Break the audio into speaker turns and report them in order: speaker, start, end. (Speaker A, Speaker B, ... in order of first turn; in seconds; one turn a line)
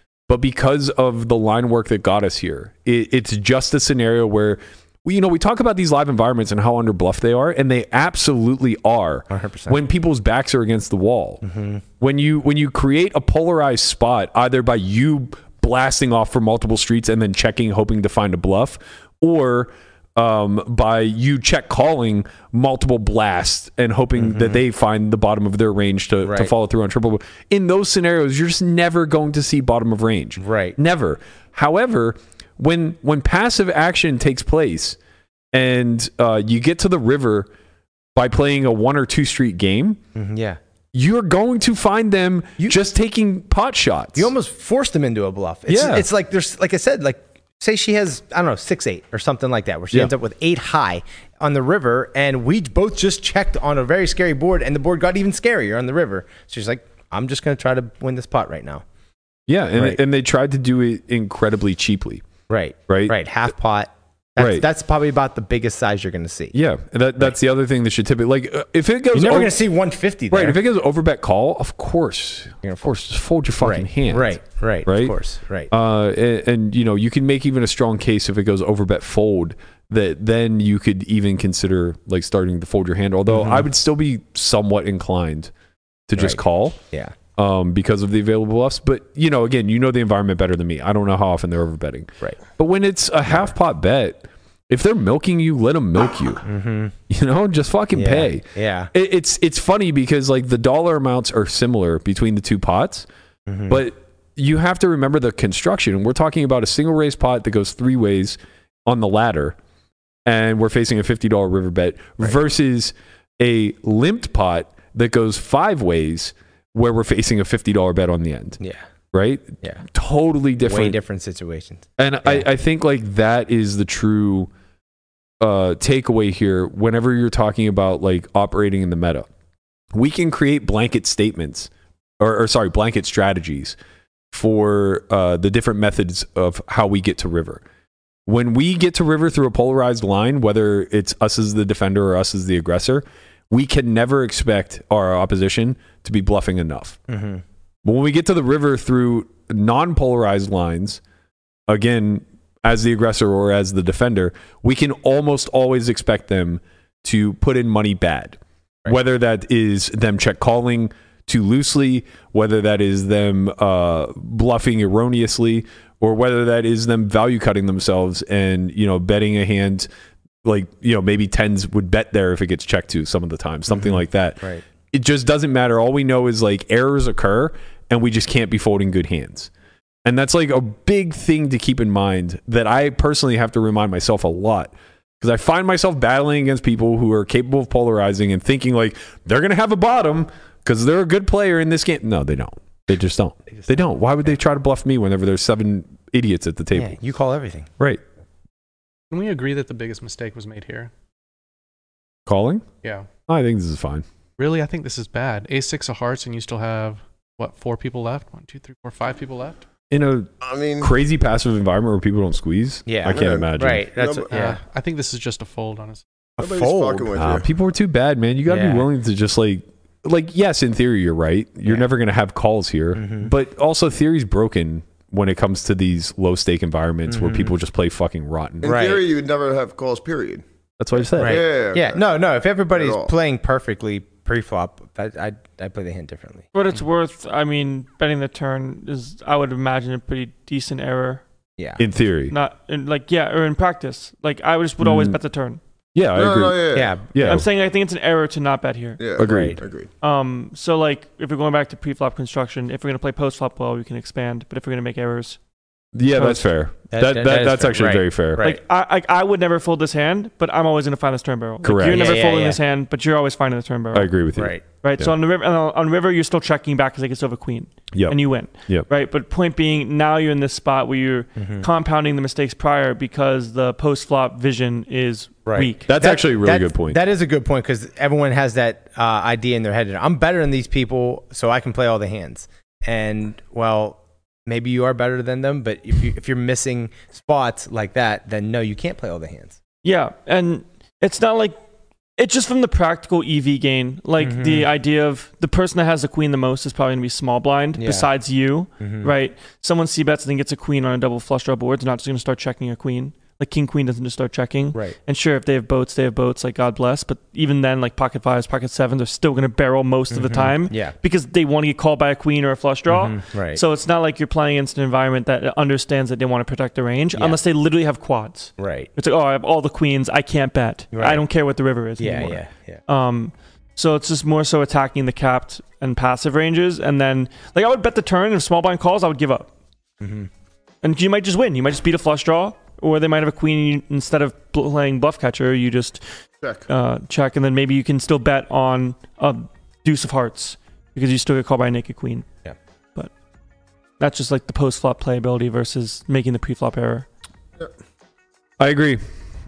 Speaker A: 0.3-11.4
Speaker B: 9.3-9.8
Speaker B: 11.4-11.8
Speaker A: 12.0-35.0
Speaker B: 24.2-24.6
Speaker B: 26.2-26.5
Speaker B: 30.4-30.8
Speaker A: 35.5-37.5
Speaker A: 38.1-40.0
Speaker B: 40.1-40.6
Speaker A: 40.9-44.3
Speaker B: 44.1-58.8
Speaker A: 45.7-46.1
Speaker A: 59.5-62.2
Speaker B: 62.5-66.5
Speaker A: 62.9-63.1
Speaker A: 64.4-64.7
Speaker A: 66.5-69.5
Speaker B: 69.1-70.6
Speaker A: 70.3-75.2
Speaker B: 72.6-72.9
Speaker B: 73.6-75.7
Speaker A: 75.7-85.5
Speaker B: 83.3-83.7
Speaker A: 86.1-86.8
Speaker B: 86.2-87.2
Speaker A: 87.4-96.4
Speaker B: 96.5-96.9
Speaker A: 97.1-103.1
Speaker B: 98.0-98.9
Speaker B: 103.5-103.8
Speaker A: 103.7-109.6
Speaker A: 110.3-118.6
Speaker A: 119.1-121.0
Speaker B: 120.7-122.5
Speaker A: 122.0-124.5
Speaker A: 125.4-129.3
Speaker A: 129.9-133.8
Speaker A: 134.3-137.6
Speaker A: 138.3-147.0
Speaker B: 147.1-147.4
Speaker A: 147.8-151.0
Speaker A: 151.7-169.9
Speaker A: 170.4-179.5
Speaker B: 173.7-174.6
Speaker A: 180.1-197.0
Speaker B: 193.5-193.8
Speaker B: 196.7-197.7
Speaker C: 199.1-200.9
Speaker A: 202.3-202.7
Speaker A: 203.3-204.1
Speaker C: 204.4-209.6
Speaker A: 209.9-213.9
Speaker D: 210.4-210.9
Speaker B: 212.9-214.6
Speaker D: 213.1-214.3
Speaker C: 214.3-216.0
Speaker B: 216.4-217.1
Speaker D: 216.4-217.5
Speaker A: 217.2-228.7
Speaker B: 218.5-218.8
Speaker B: 222.9-223.3
Speaker B: 227.1-227.5
Speaker D: 228.6-230.4
Speaker B: 228.7-229.0
Speaker A: 230.8-231.4
Speaker B: 231.2-236.5
Speaker D: 231.2-232.0
Speaker D: 232.8-233.1
Speaker E: 236.5-241.2
Speaker A: 241.8-242.3
Speaker E: 242.3-245.6
Speaker A: 244.8-245.2
Speaker A: 245.9-247.5
Speaker D: 246.1-247.3
Speaker B: 246.7-247.3
Speaker E: 247.3-249.0
Speaker D: 249.0-249.9
Speaker A: 249.2-249.6
Speaker B: 249.2-249.6
Speaker E: 250.0-255.4
Speaker A: 255.9-258.4
Speaker B: 256.9-258.6
Speaker E: 258.4-264.2
Speaker A: 261.6-262.2
Speaker B: 261.9-262.6
Speaker A: 263.9-265.1
Speaker B: 264.4-264.6
Speaker E: 264.7-275.9
Speaker A: 267.9-268.9
Speaker B: 271.4-271.7
Speaker B: 275.5-289.6
Speaker A: 275.9-277.0
Speaker E: 289.8-291.6
Speaker E: 292.2-329.5
Speaker B: 294.2-294.7
Speaker B: 297.8-298.1
Speaker B: 298.8-299.1
Speaker B: 310.1-310.9
Speaker B: 312.9-313.6
Speaker B: 318.6-318.9
Speaker B: 320.9-321.2
Speaker B: 322.0-322.8
Speaker B: 330.0-330.3
Speaker E: 330.8-336.0
Speaker E: 336.7-342.3
Speaker E: 344.0-347.1
Speaker A: 348.6-349.0